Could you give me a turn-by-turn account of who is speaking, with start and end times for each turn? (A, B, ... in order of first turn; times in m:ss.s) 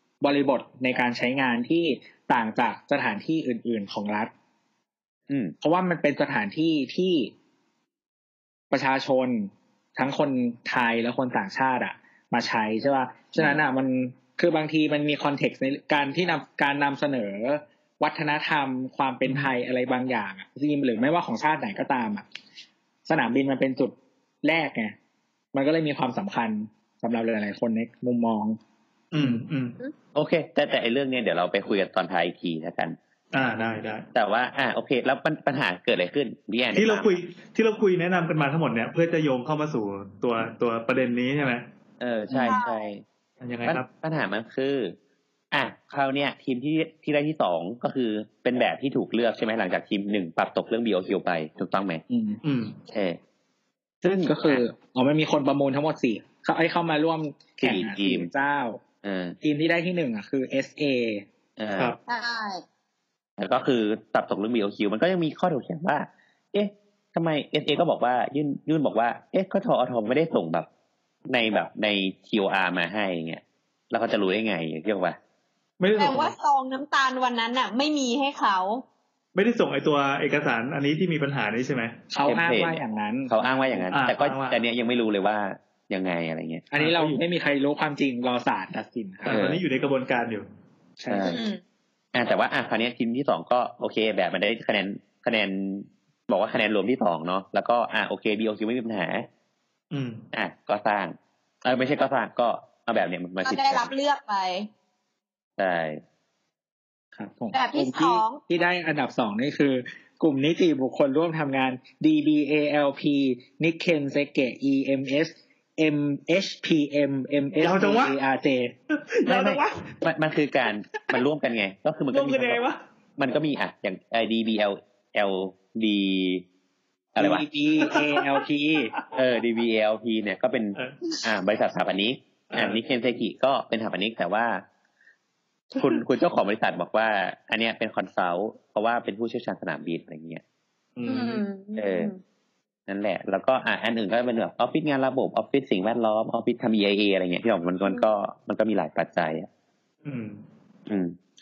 0:00.2-0:04.3 A
0:05.6-0:07.3 A
0:08.7-0:22.2 A
0:19.2-0:19.5 B
0:23.0-0:25.0 A
0:25.5-0:28.6 A
0:29.1-0:29.7 B
0:30.1-0:33.0 C
0:33.3-0:34.0 B
0:34.1-0:37.2 C
0:36.7-0:41.6 B
0:42.0-0:43.0 C
0:42.4-0:42.8 D
0:43.4-0:43.9 B
0:43.6-0:44.9 C
0:45.5-0:52.0 C
0:52.1-0:52.4 A
0:52.4-0:52.8 B
0:52.9-0:53.2 C
0:54.0-0:54.6 C
0:54.1-0:58.8 A
0:57.6-0:58.3 C
0:59.0-0:59.4 C
0:59.4-1:01.2 A
1:01.6-1:02.0 C
1:02.1-1:02.6 D
1:03.4-1:10.7 C
1:11.3-1:15.2 C
1:15.8-1:16.3 B
1:16.0-1:18.8 D
1:19.3-1:21.9 B
1:22.1-1:23.8 A
1:22.2-1:26.6 C
1:23.9-1:24.6 B
1:26.7-1:29.4 A
1:26.8-1:27.2 B
1:29.2-1:30.5 B
1:29.3-1:29.6 C
1:31.0-1:31.3 A
1:31.1-1:31.4 C
1:31.2-1:31.6 D
1:32.1-1:39.3 C
1:39.9-1:40.2 B
1:40.3-1:43.9 C
1:43.4-1:44.7 D
1:45.6-1:46.0 C
1:47.2-1:58.7 A
1:47.5-1:48.4 D
1:57.6-1:58.1 B
1:58.9-1:59.9 B
1:59.3-2:02.6 C
2:02.1-2:02.8 B
2:03.2-2:06.4 C
2:07.1-2:07.4 C
2:07.2-2:08.9 A
2:07.8-2:09.0 B
2:09.1-2:14.6 C
2:12.5-2:12.8 B
2:15.8-2:20.4 C
2:21.0-2:21.4 B
2:21.0-2:22.2 D
2:21.8-2:22.1 C
2:22.9-2:29.5 C
2:30.0-2:30.4 B
2:30.9-2:31.1 C